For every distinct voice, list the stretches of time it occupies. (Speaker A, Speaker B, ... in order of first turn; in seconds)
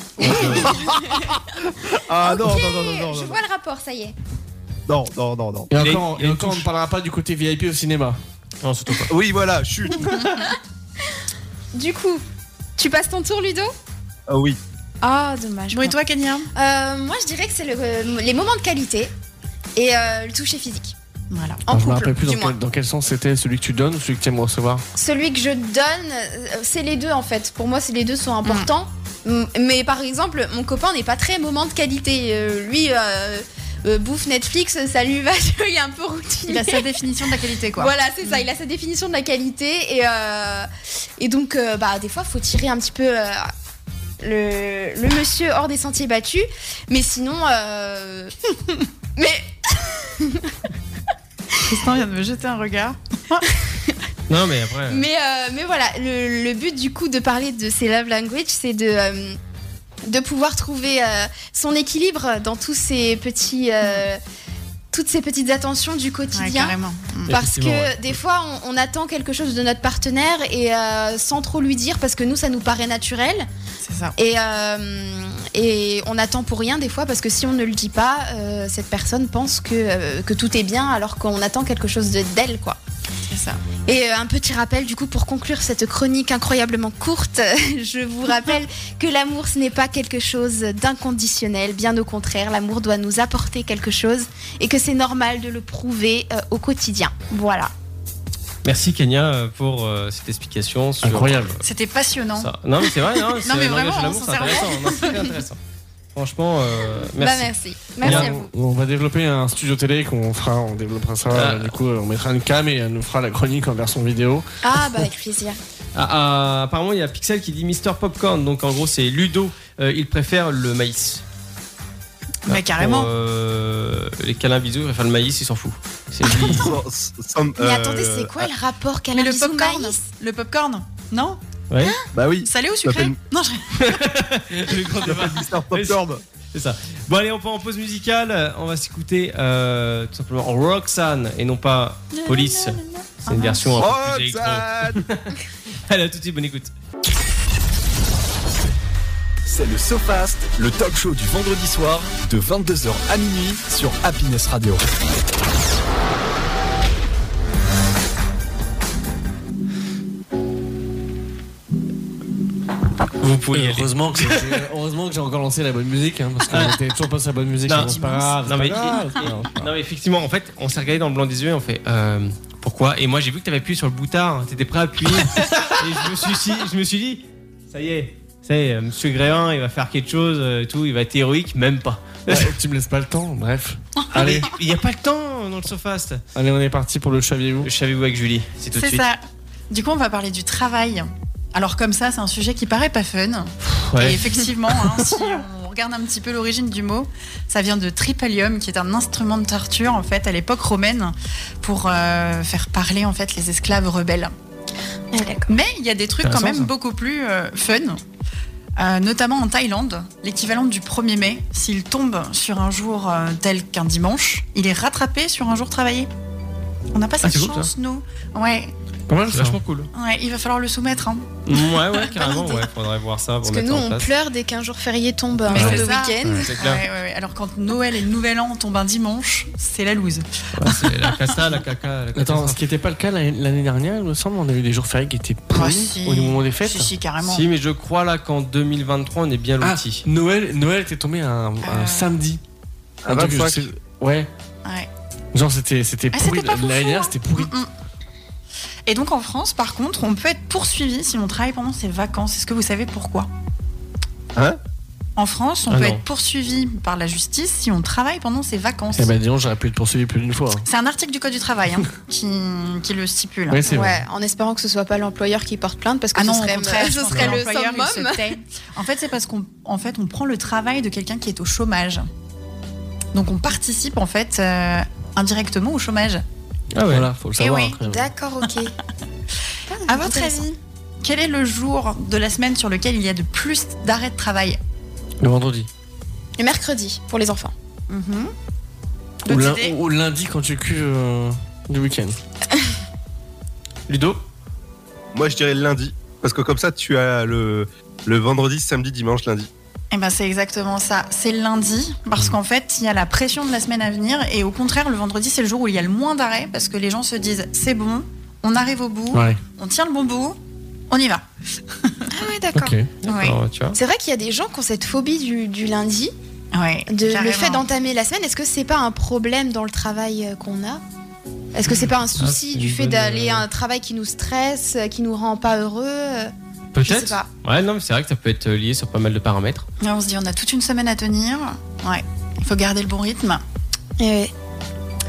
Speaker A: 0.2-0.7, 5.7-6.7, 8.6-9.1, 54.3-55.0, 67.3-68.0, 98.6-101.6, 102.4-105.6, 106.1-108.3, 111.3-111.7, 116.0-121.2, 122.5-126.7, 131.7-132.0, 133.8-136.0, 136.5-146.7, 163.2-164.6, 166.5-166.7, 167.7-182.5, 184.1-186.2, 187.6-189.0, 193.7-194.8, 206.2-206.7, 217.2-217.7, 219.3-219.9, 221.5-224.1, 226.3-226.8, 230.6-232.6, 237.2-240.0, 255.7-256.0, 267.1-267.4, 276.7-277.1, 293.9-294.2, 313.0-313.8, 322.2-323.4, 326.7-329.7
Speaker B: 0.2-1.3, 2.2-4.1, 11.7-12.2, 12.8-13.7, 15.0-16.0, 16.5-19.1, 19.8-20.9, 21.7-22.6, 24.9-37.0, 37.8-40.7, 41.2-43.5, 44.2-48.3, 49.2-50.5, 54.9-59.4, 60.1-64.2, 64.9-73.5, 74.2-82.8, 83.9-97.7, 107.2-108.5, 114.6-115.6, 127.6-130.0, 205.1-205.5, 221.9-222.7, 223.4-226.5, 263.7-268.3, 277.8-278.7, 279.7-280.5, 286.4-287.5, 312.1-312.8, 313.7-316.1, 316.9-320.8, 321.5-326.3, 326.8-327.3, 334.0-334.3
Speaker C: 0.2-3.4, 4.9-5.7, 9.1-10.3, 14.3-14.6, 126.5-128.5, 132.1-133.2, 135.0-136.2, 143.8-145.0, 243.0-243.7, 295.1-299.5
Speaker D: 5.7-8.2, 21.7-24.9, 101.0-101.6, 108.0-114.5, 163.5-169.7, 182.3-184.5, 186.3-187.7, 219.1-219.6, 225.5-226.5, 232.1-236.9, 239.6-242.4, 243.1-244.3, 245.3-247.5, 258.9-260.7, 263.5-264.0, 276.9-278.1, 285.2-285.7, 289.3-292.2, 309.1-309.4, 312.5-312.9
Speaker E: 15.7-16.5, 21.3-21.6, 36.5-38.5, 51.7-53.5, 66.3-67.3, 73.8-74.1, 83.3-83.6, 101.6-102.5, 103.3-105.3, 122.5-123.1, 129.1-131.4, 132.4-134.0, 142.1-143.9, 188.7-204.3, 205.5-208.0, 208.8-216.1, 216.9-218.7, 219.9-221.3, 225.5-231.3, 235.5-237.5, 241.6-242.1, 246.1-247.7, 248.9-253.3, 255.2-259.1, 260.6-263.7, 266.1-272.1, 273.1-276.2, 277.4-277.8, 279.9-284.6, 287.9-288.3, 289.2-289.8, 299.9-310.4, 310.9-311.2, 311.8-312.1, 313.0-313.4, 316.5-317.6, 329.8-333.4
Speaker F: 149.4-154.8